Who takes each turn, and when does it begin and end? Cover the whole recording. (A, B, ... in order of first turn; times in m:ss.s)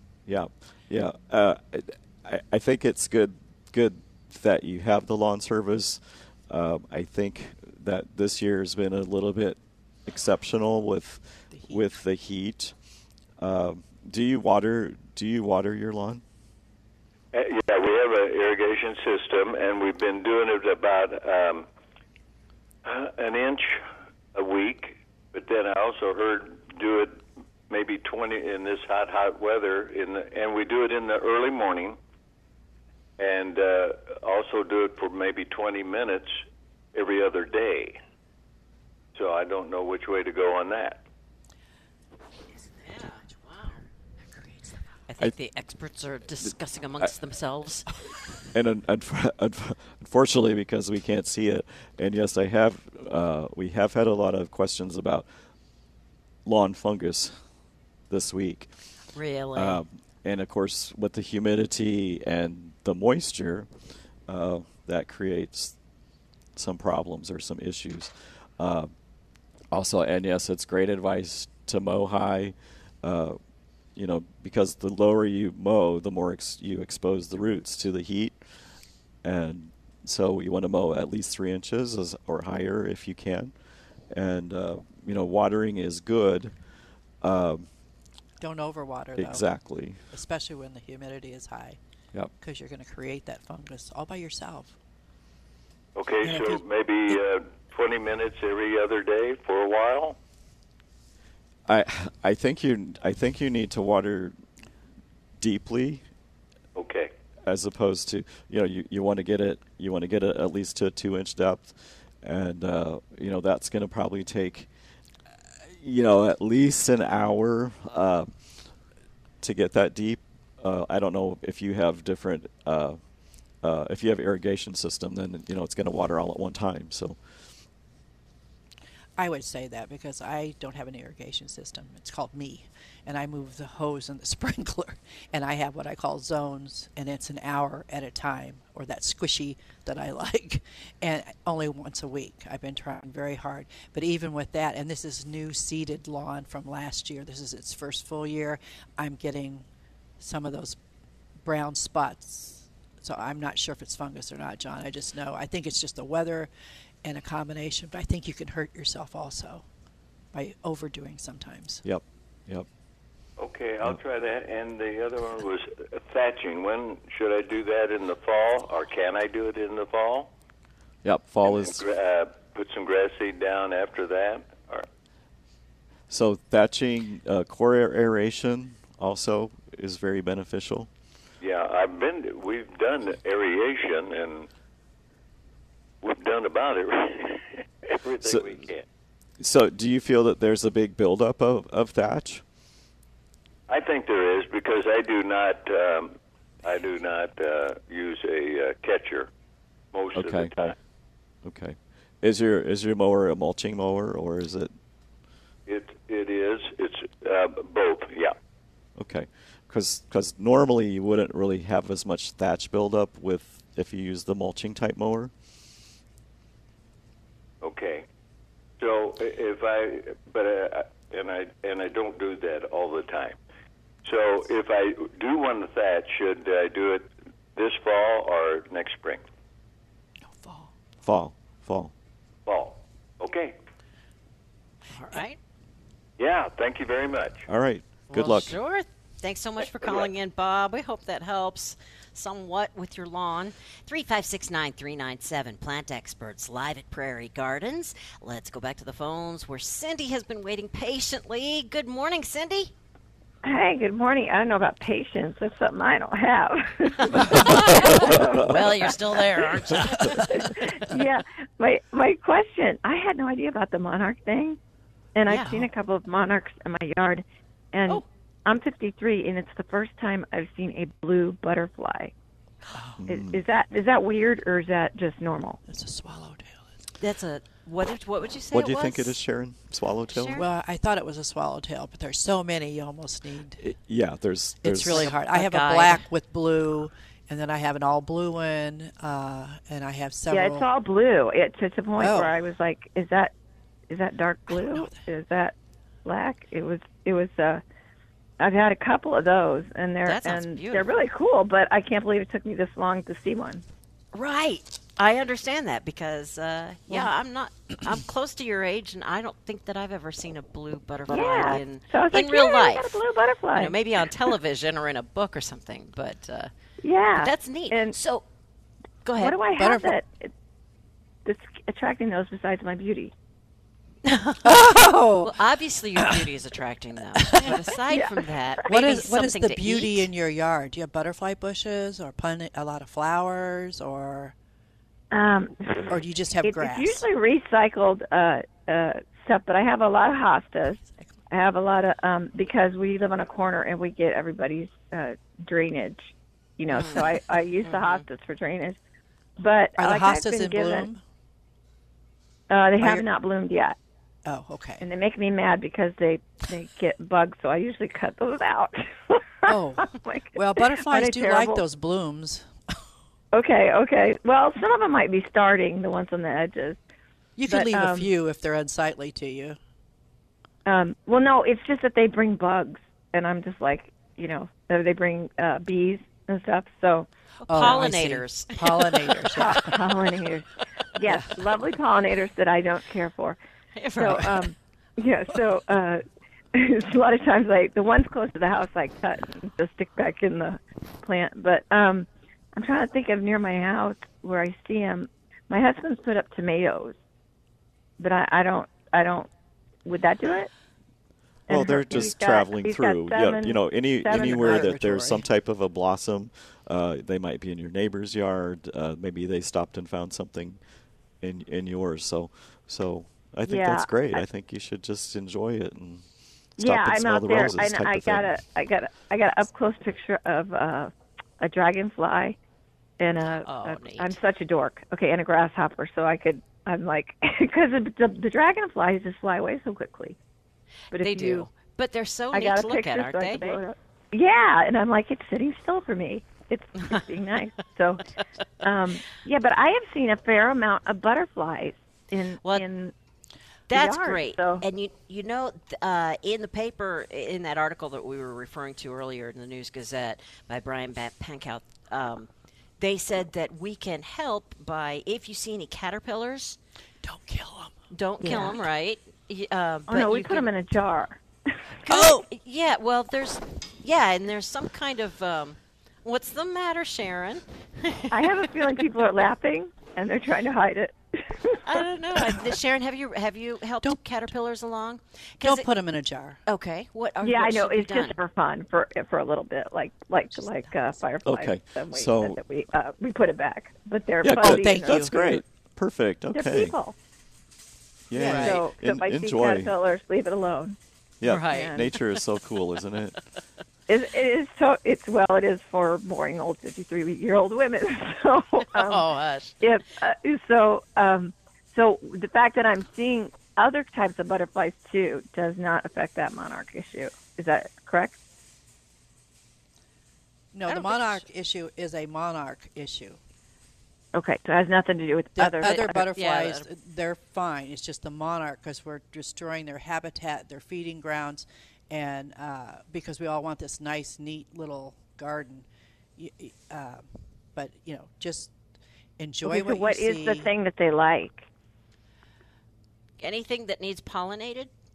0:00.3-0:12.7 A
0:11.5-0:11.8 B
0:13.4-0:16.2 A
0:17.3-0:21.7 C
0:22.8-0:23.8 C
0:24.3-0:32.0 C
0:33.2-0:36.4 C
0:36.9-0:38.0 C
0:39.1-0:41.0 C
0:42.6-0:43.8 D
0:44.4-0:44.7 B
0:45.1-0:47.9 D
0:48.5-0:55.3 A
0:56.4-0:57.4 A
0:58.1-0:58.7 A
0:59.2-0:59.8 D
0:59.6-1:03.7 A
1:04.3-1:05.7 A
1:06.6-1:08.9 A
1:09.7-1:13.4 A
1:14.0-1:18.4 A
1:19.2-1:23.5 A
1:24.1-1:26.5 A
1:27.2-1:27.7 A
1:28.4-1:29.4 B
1:29.2-1:30.0 A
1:30.1-1:31.8 B
1:32.4-1:34.8 B
1:36.0-1:40.2 C
1:36.2-1:36.6 B
1:41.7-1:44.4 A
1:45.4-1:46.0 A
1:46.8-1:47.1 C
1:47.4-1:54.7 A
1:55.7-1:58.3 A
1:59.4-2:03.0 A
2:03.6-2:07.2 A
2:09.2-2:29.7 B
2:30.2-2:30.8 B
2:31.4-2:36.5 B
2:37.0-2:39.6 B
2:40.3-2:41.8 B
2:41.8-2:42.7 A
2:43.4-2:50.3 C
2:51.0-2:51.8 A
2:51.4-2:54.9 C
2:56.1-3:00.9 A
3:01.4-3:04.5 C
3:06.0-3:08.8 C
3:08.2-3:08.6 A
3:09.4-3:12.4 A
3:13.7-3:19.3 C
3:19.9-3:20.7 C
3:20.2-3:20.5 A
3:21.4-3:24.7 A
3:25.7-3:28.4 C
3:29.0-3:35.3 A
3:37.6-3:38.0 C
3:38.8-3:43.4 C
3:44.0-3:49.2 C
3:50.2-3:50.7 B
3:51.0-3:51.9 A
3:52.5-3:53.6 C
3:54.9-3:55.4 D
3:56.2-3:57.5 C
3:57.5-3:58.6 A
3:58.1-4:12.7 D
3:59.8-4:00.1 C
4:13.4-4:18.9 E
4:17.1-4:20.7 D
4:18.2-4:18.5 A
4:20.1-4:24.6 E
4:25.2-4:32.1 E
4:25.3-4:25.7 D
4:33.0-4:33.4 A
4:33.1-4:35.6 E
4:35.7-4:36.7 B
4:37.0-4:39.2 D
4:38.5-4:40.4 A
4:40.1-4:40.5 D
4:40.4-4:43.6 B
4:43.6-4:45.1 A
4:44.6-4:50.7 B
4:44.9-4:46.0 D
4:50.3-4:53.3 E
4:52.0-4:52.4 B
4:53.9-4:57.6 E
4:54.5-4:55.0 B
4:58.4-5:03.6 E
5:00.0-5:00.9 D
5:04.1-5:13.0 D
5:11.1-5:14.0 E
5:13.5-5:16.5 D
5:16.8-5:18.0 E
5:17.2-5:18.3 D
5:19.0-5:19.4 D
5:19.2-5:20.3 E
5:19.6-5:20.0 B
5:21.2-5:23.1 E
5:24.0-5:30.1 D
5:24.4-5:25.4 B
5:26.0-5:26.3 B
5:27.2-5:27.6 B
5:27.9-5:28.3 E
5:28.7-5:34.4 B
5:35.1-5:48.8 E
5:35.9-5:37.1 B
5:46.7-5:48.0 D
5:49.4-5:50.9 E
5:49.8-5:51.0 B
5:52.5-5:53.8 E
5:52.8-5:53.1 B
5:54.2-5:54.9 B
5:54.8-6:01.6 E
5:59.5-6:02.8 B
6:03.3-6:06.8 E
6:07.4-6:09.6 B
6:07.5-6:08.1 E
6:10.7-6:17.1 E
6:17.4-6:19.6 D
6:17.5-6:19.8 B
6:19.3-6:23.4 E
6:23.8-6:24.5 D
6:24.0-6:26.0 E
6:26.5-6:37.0 E
6:38.0-6:39.3 E
6:39.8-6:40.5 E
6:41.5-6:44.7 E
6:41.5-6:50.6 A
6:44.1-6:45.3 B
6:51.2-6:56.0 A
6:53.4-6:54.2 E
6:56.6-7:02.4 E
6:56.6-6:58.3 A
7:03.0-7:10.2 E
7:03.4-7:04.1 D
7:10.9-7:11.5 E
7:10.9-7:13.6 D
7:12.3-7:18.0 E
7:18.6-7:22.9 E
7:23.7-7:24.6 E
7:23.7-7:36.6 D
7:37.0-7:37.8 B
7:37.9-7:40.5 D
7:38.2-7:38.6 E
7:39.9-7:41.2 E
7:41.8-7:48.5 D
7:48.1-7:51.8 E
7:51.6-7:55.7 D
7:55.4-7:56.4 B
7:56.5-7:58.2 D
7:57.2-8:05.4 E
8:01.2-8:02.4 A
8:04.2-8:06.8 A
8:04.4-8:05.2 B
8:06.3-8:07.0 E
8:08.1-8:09.7 A
8:08.2-8:10.8 E
8:08.2-8:08.5 B
8:08.2-8:08.6 D
8:11.2-8:13.2 A
8:11.2-8:12.0 D
8:11.5-8:11.9 E
8:13.9-8:19.1 E
8:18.7-8:19.6 D
8:19.6-8:28.2 E
8:30.5-8:33.2 B
8:30.7-8:31.2 D
8:34.1-8:36.1 E
8:35.4-8:45.7 B
8:35.6-8:36.7 D
8:46.2-8:48.6 B
8:49.2-8:50.5 B
8:49.4-8:51.5 E
8:53.2-8:54.7 D